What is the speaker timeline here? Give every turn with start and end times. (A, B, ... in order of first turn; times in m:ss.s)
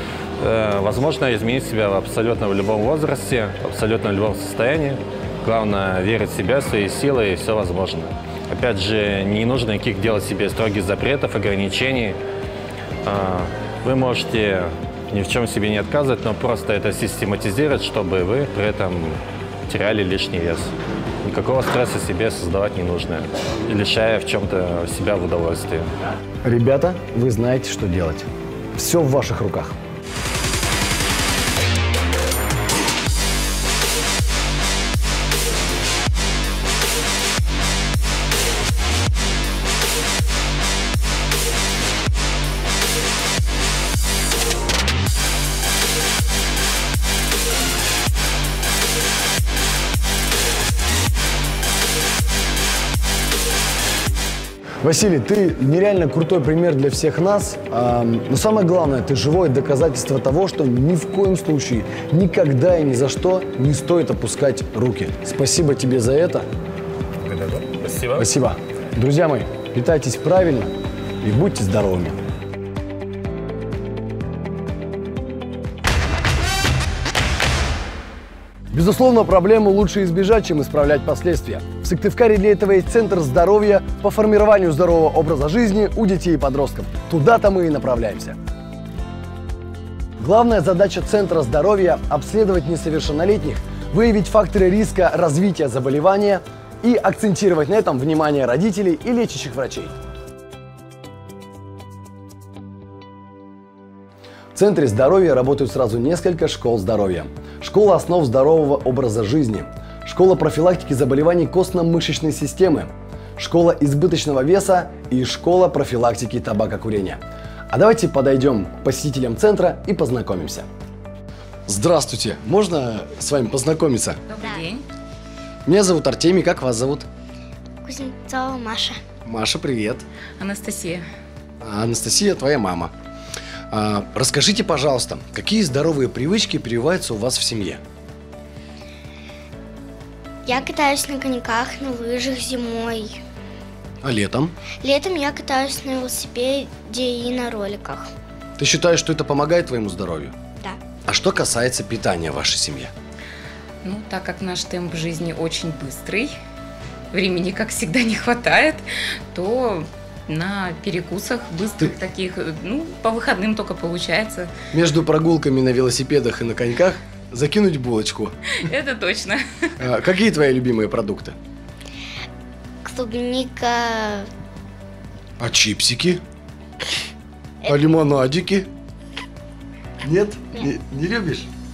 0:00.4-0:12.2 A
0:13.0-0:20.7 A
0:21.2-0:25.9 A
0:26.4-0:29.8 B
0:54.8-1:06.5 B
1:07.2-1:08.3 A
1:08.2-1:12.2 B
1:18.7-1:28.4 B
1:30.2-1:40.0 B
1:44.6-2:00.7 B
2:01.7-2:04.2 B
2:04.3-2:04.8 C
2:05.7-2:07.1 B
2:07.8-2:09.0 D
2:09.2-2:10.0 B
2:10.4-2:11.0 C
2:11.6-2:12.9 B
2:13.7-2:17.8 B
2:20.4-2:23.2 D
2:24.0-2:24.5 B
2:24.8-2:28.1 D
2:28.6-2:30.3 B
2:31.0-2:32.9 B
2:33.8-2:36.3 C
2:37.1-2:44.5 C
2:44.7-2:48.4 B
2:48.6-2:49.7 C
2:49.8-2:51.4 B
2:52.8-2:54.3 D
2:55.4-2:56.2 B
2:57.7-2:58.7 B
3:00.0-3:01.5 B